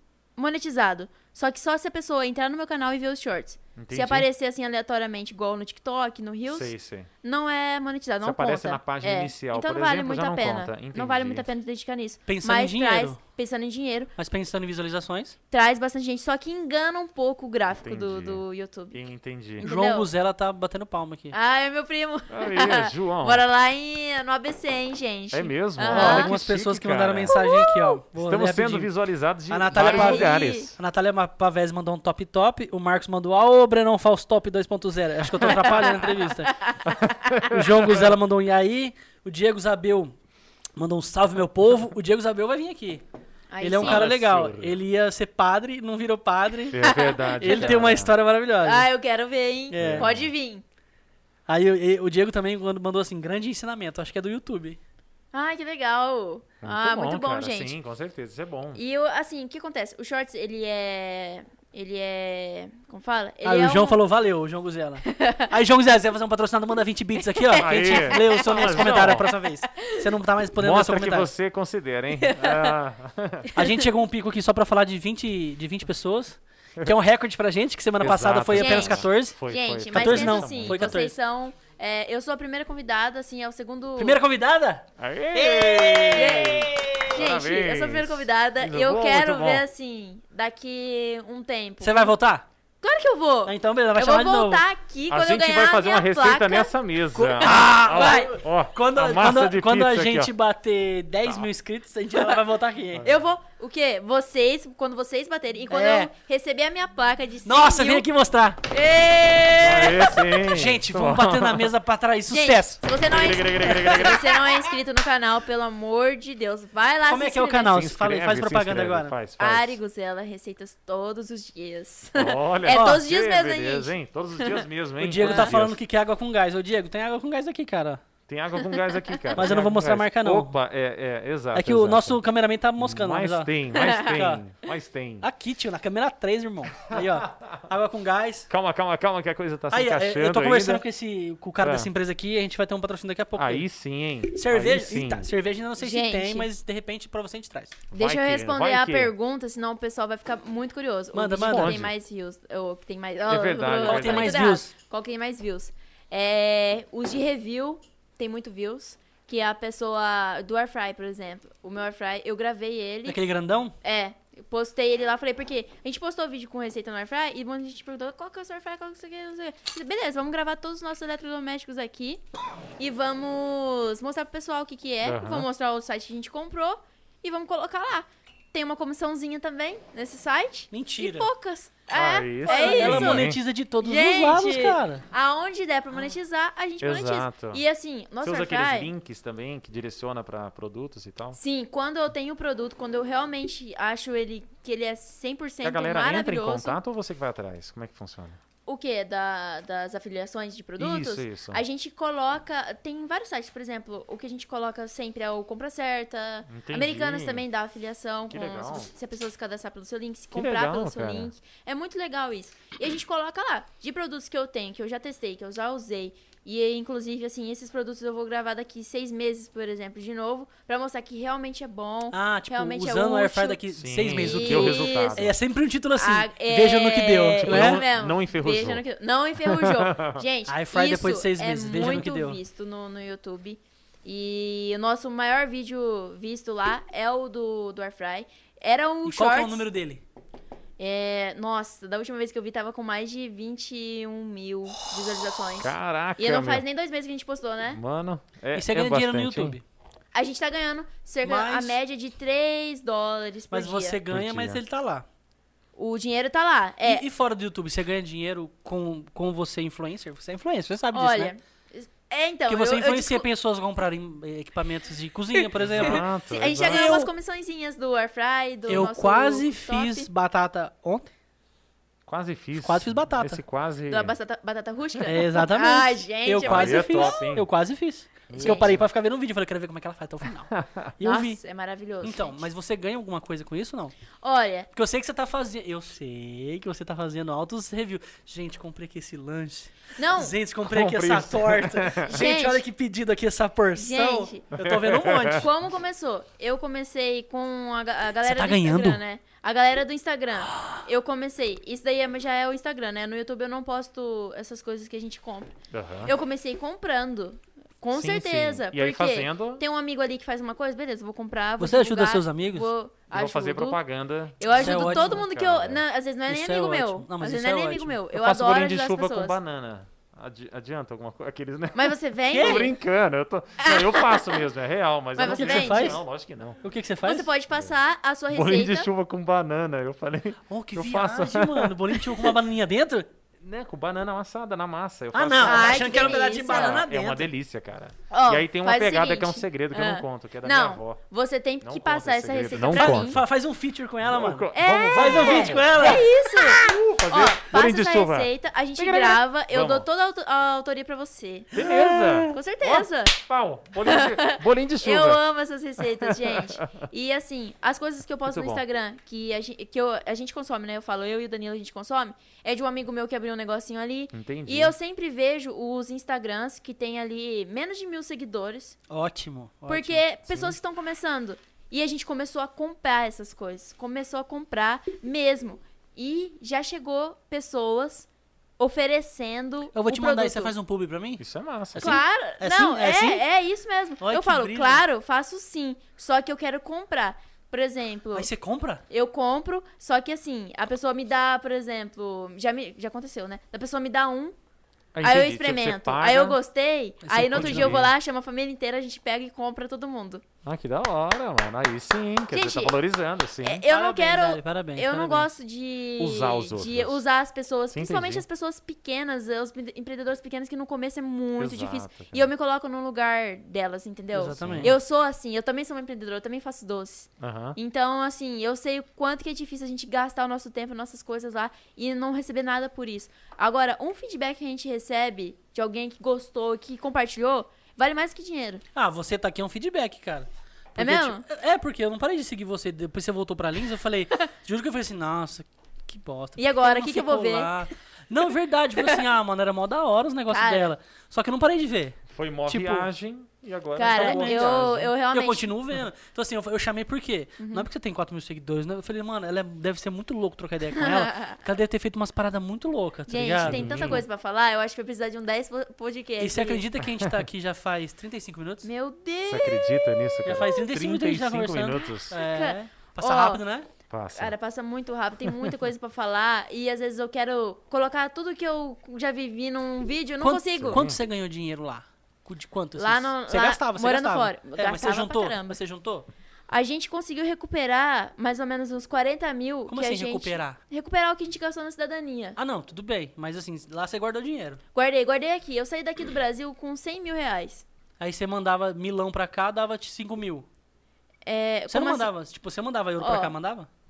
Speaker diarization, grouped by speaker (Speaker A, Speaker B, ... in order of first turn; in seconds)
Speaker A: 0.4-6.7, 7.2-14.1, 15.5-19.0, 19.6-20.1, 21.3-26.3, 27.2-28.0, 29.7-30.7, 35.4-36.9, 43.5-44.1, 46.8-47.9, 48.6-50.6, 55.3-57.7, 58.7-64.0, 65.1-65.5, 67.3-70.0, 72.2-72.7, 78.5-84.2, 86.1-92.2, 92.8-98.4, 103.0-108.0, 108.7-110.3, 112.3-117.7, 119.4-124.6, 125.2-125.5, 128.8-129.3, 133.7-134.1, 145.8-146.5, 147.9-163.2, 163.8-172.2, 172.8-188.9, 191.3-196.8, 198.7-225.3, 225.9-239.7, 240.8-247.8, 250.1-254.0, 255.8-257.1, 260.9-263.2, 265.3-270.1, 273.9-277.3, 278.3-278.7, 281.0-282.5, 284.2-284.7, 290.0-290.3, 292.0-292.6, 293.7-294.4, 295.3-313.8, 314.4-319.4, 321.7-322.7, 323.6-324.3, 325.1-326.0, 327.0-328.9, 335.4-336.8, 338.1-343.2, 344.5-351.5, 352.3-353.2, 353.8-368.8, 369.7-378.1, 378.6-380.5, 381.8-388.3, 388.9-394.3, 395.0-400.2, 402.3-402.7, 403.4-428.6, 430.8-431.2, 436.4-437.6, 440.3-440.7, 443.8-445.5, 447.4-447.7, 450.8-451.4, 453.1-456.6, 458.6-460.0, 462.1-463.4, 464.1-470.8, 472.8-475.6, 476.5-482.4, 484.7-487.6, 491.2-492.1, 493.0-493.3
Speaker B: 3.8-4.3, 6.5-7.1, 8.2-11.4, 17.8-19.6, 22.3-23.4, 25.3-27.4, 28.1-30.8, 36.9-38.1, 43.8-44.8, 46.7-48.1, 49.7-50.3, 56.6-58.8, 67.6-69.3, 70.6-73.5, 78.0-81.0, 85.0-89.6, 95.1-100.3, 102.9-103.2, 109.6-111.7, 112.9-114.3, 117.6-119.8, 122.1-125.8, 128.3-132.2, 132.8-135.3, 138.5-140.8, 141.6-141.9, 143.3-145.3, 147.9-149.1, 151.5-151.9, 153.3-154.4, 175.0-175.5, 181.9-183.4, 186.8-187.6, 188.2-191.4, 195.6-198.4, 200.8-201.6, 206.5-207.4, 208.3-208.9, 210.3-211.3, 223.8-225.3, 227.4-228.8, 229.4-230.2, 245.6-246.6, 247.7-249.6, 254.1-254.6, 265.6-266.9, 272.1-274.1, 276.4-277.5, 278.3-278.8, 280.5-280.9, 290.6-292.2, 294.6-295.4, 305.7-306.1, 307.9-309.6, 313.1-315.8, 318.1-326.6, 328.3-332.0, 333.4-341.0, 341.6-343.2, 344.0-349.9, 351.5-355.2, 355.8-356.7, 358.2-358.6, 364.1-364.7, 370.3-370.6, 381.2-382.0, 394.9-396.4, 397.3-397.9, 400.4-403.6, 406.0-407.0, 407.7-408.2, 411.4-412.3, 414.4-414.7, 417.2-417.6, 442.1-444.9, 453.4-454.0, 459.2-462.1, 463.9-464.3, 465.3-465.5, 470.6-471.0
Speaker C: 12.3-13.2, 14.2-15.3, 19.6-21.3, 25.9-28.9, 29.5-36.5, 37.5-40.1, 40.8-43.0, 43.6-46.9, 47.4-48.9, 49.7-50.1, 51.5-54.8, 63.4-71.3, 73.5-79.4, 79.9-81.1, 84.0-87.2, 91.8-92.5, 93.5-94.6, 97.2-103.0, 105.7-106.1, 107.4-108.6, 110.4-112.8, 113.6-114.5, 117.1-119.1, 122.7-123.0, 125.0-128.0, 129.3-130.5, 131.5-134.4, 135.2-138.5, 139.7-143.7, 144.3-147.8, 151.1-151.8, 153.8-154.7, 163.1-163.8, 180.7-181.3, 182.4-185.0, 222.1-227.8, 230.5-232.4, 239.0-240.0, 248.5-249.6, 251.2-251.8, 253.5-255.0, 256.8-261.3, 262.5-267.1, 268.7-271.1, 272.6-273.4, 275.1-281.4, 282.0-283.9, 284.7-295.5, 298.2-299.0, 311.6-312.7, 314.5-315.2, 316.3-318.0, 322.3-322.7, 325.2-326.0, 326.6-327.3, 330.5-333.1, 335.1-337.3, 342.6-346.1, 351.5-352.4, 368.9-370.0, 379.7-381.2, 381.7-383.2, 384.0-384.8, 388.1-388.8, 397.0-397.9, 403.7-405.3, 414.1-414.8, 428.7-442.9, 443.8-444.6, 445.1-454.0, 456.2-458.7, 460.2-463.7, 470.2-476.1, 479.7-480.6, 482.4-484.6, 488.0-490.5, 491.7-493.7